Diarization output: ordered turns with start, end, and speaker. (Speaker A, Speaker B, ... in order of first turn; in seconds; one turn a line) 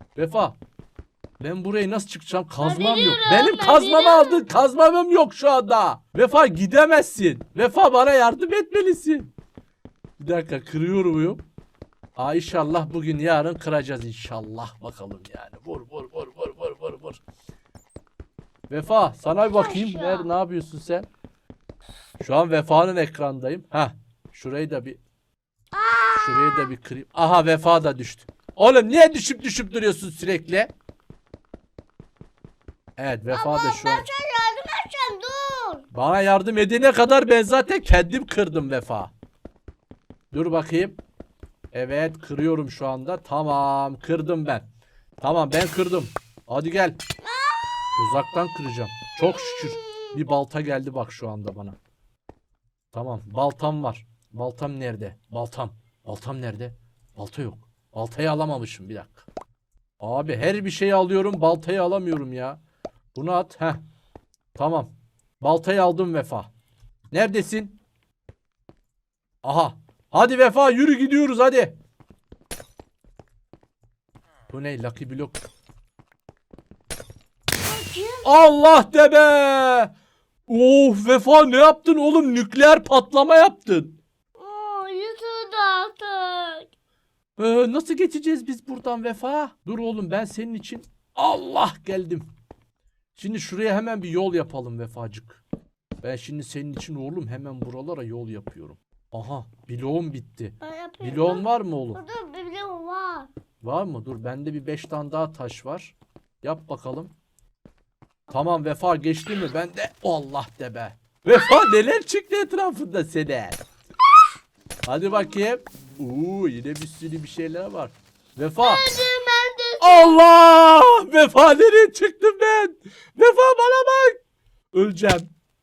Speaker A: 0.2-0.6
Speaker A: 1.4-9.3
Speaker B: 2.6-4.5
Speaker A: 10.2-11.4
Speaker A: 12.2-17.2
Speaker A: 18.7-21.1
Speaker B: 19.4-20.3
Speaker A: 22.2-25.0
Speaker B: 25.7-26.7
Speaker A: 26.2-30.7
Speaker A: 33.0-34.1
Speaker B: 33.3-35.9
Speaker A: 35.9-39.1
Speaker A: 40.3-41.0
Speaker A: 41.7-44.7
Speaker A: 45.2-47.0
Speaker B: 47.2-48.0
Speaker A: 48.0-51.8
Speaker B: 49.3-50.2
Speaker A: 52.9-59.3
Speaker A: 60.0-62.6
Speaker A: 63.1-63.8
Speaker A: 64.5-66.5
Speaker A: 67.1-67.8
Speaker A: 69.4-71.8
Speaker A: 74.5-75.4
Speaker B: 77.6-78.3
Speaker A: 78.2-79.9
Speaker A: 80.5-84.0
Speaker B: 84.4-86.7
Speaker A: 87.4-92.3
Speaker A: 93.2-95.4
Speaker A: 96.0-102.0
Speaker B: 100.6-103.3
Speaker A: 103.6-107.1
Speaker A: 108.3-113.6
Speaker A: 114.8-118.8
Speaker B: 118.6-120.2
Speaker A: 119.8-124.2
Speaker A: 124.7-125.3